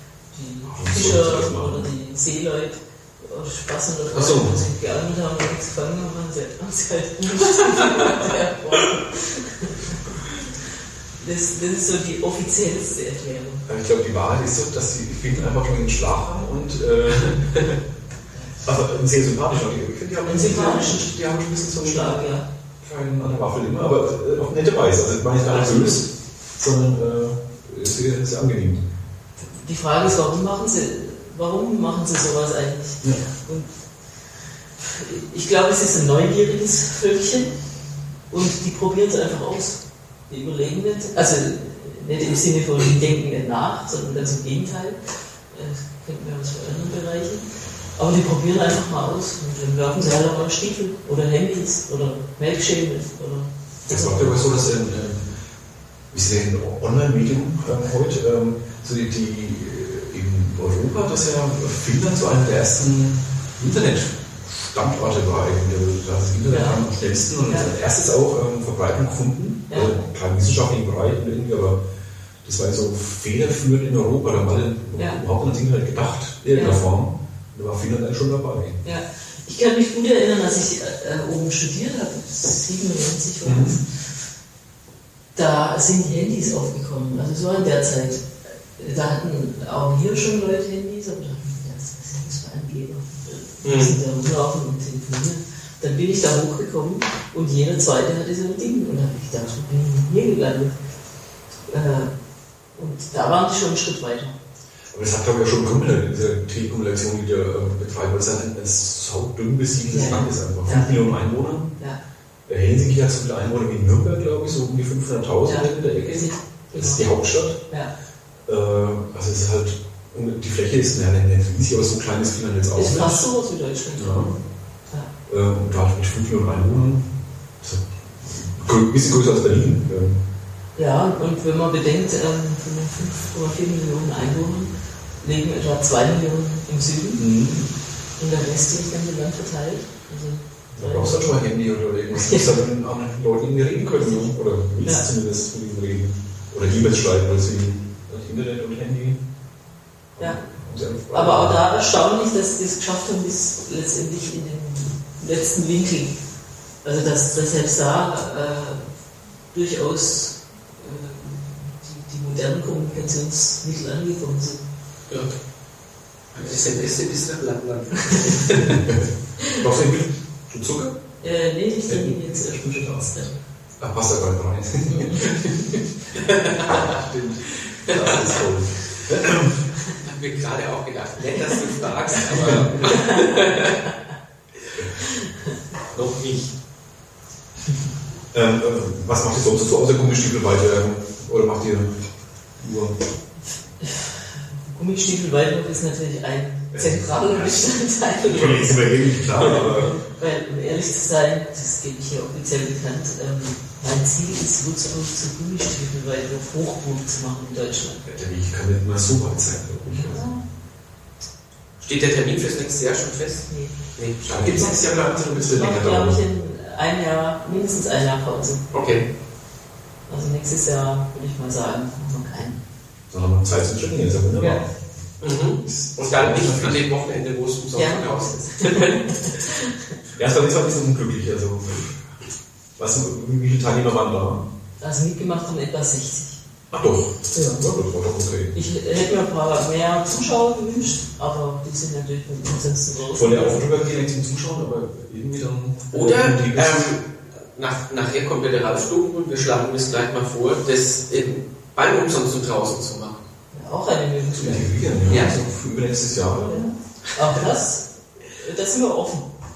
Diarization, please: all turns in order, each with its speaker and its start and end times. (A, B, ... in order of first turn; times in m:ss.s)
0:00.3-0:10.3 A
0:00.7-0:01.9 B
0:04.1-0:04.6 B
0:11.2-0:13.6 A
0:13.7-0:17.7 B
0:18.6-0:22.3 B
0:20.2-0:21.2 A
0:21.8-0:22.5 A
0:22.8-0:28.8 B
0:25.5-0:25.9 A
0:25.6-0:25.9 C
0:29.5-0:33.8 A
0:34.8-0:37.6 A
0:38.3-0:54.3 A
0:53.9-0:55.3 B
0:56.1-1:11.8 B
1:06.5-1:06.9 A
1:07.4-1:07.7 A
1:09.7-1:10.0 A
1:12.4-1:18.8 B
1:16.5-1:16.8 A
1:18.8-1:23.9 A
1:23.4-1:23.8 B
1:25.4-1:40.8 A
1:33.6-1:34.0 C
1:41.7-1:42.1 A
1:42.7-1:44.4 A
1:44.9-1:51.7 B
1:49.9-1:51.2 A
1:52.5-1:57.6 B
1:55.4-1:57.0 A
1:58.5-2:03.2 B
2:02.7-2:04.3 A
2:04.0-2:04.4 B
2:05.3-2:10.2 B
2:10.8-2:17.3 A
2:17.2-2:17.7 B
2:18.2-2:21.4 A
2:20.7-2:29.2 B
2:22.1-2:22.5 A
2:23.8-2:25.1 A
2:30.2-2:31.6 B
2:31.1-2:36.2 A
2:36.8-2:38.9 A
2:39.5-2:44.6 A
2:45.1-2:45.4 C
2:46.4-2:48.8 C
2:48.6-2:51.0 B
2:51.2-2:53.4 A
2:51.9-2:53.2 B
2:53.8-2:55.8 B
2:54.9-2:55.3 A
2:56.2-2:57.0 C
2:56.7-2:59.6 B
2:57.6-2:58.4 C
3:00.0-3:03.8 C
3:02.3-3:02.9 B
3:05.2-3:05.5 A
3:05.9-3:06.5 C
3:08.3-3:13.0 B
3:13.8-3:28.0 A
3:16.7-3:17.7 B
3:18.2-3:20.0 B
3:28.0-3:30.3 B
3:29.9-3:30.4 A
3:31.8-3:34.9 C
3:33.5-3:33.8 A
3:34.3-3:36.2 B
3:34.5-3:38.7 A
3:38.7-3:39.0 C
3:40.1-3:42.6 A
3:43.1-3:44.7 B
3:45.2-3:49.0 C
3:45.6-3:46.8 B
3:47.8-3:49.8 A
3:50.2-3:52.0 B
3:52.8-3:54.5 B
3:54.8-3:56.4 A
3:56.7-3:58.6 B
3:57.3-3:57.6 A
3:58.5-4:03.6 A
4:03.1-4:07.0 B
4:05.9-4:13.3 C
4:13.5-4:14.7 A
4:14.4-4:16.7 B
4:15.1-4:15.4 C
4:16.5-4:19.3 A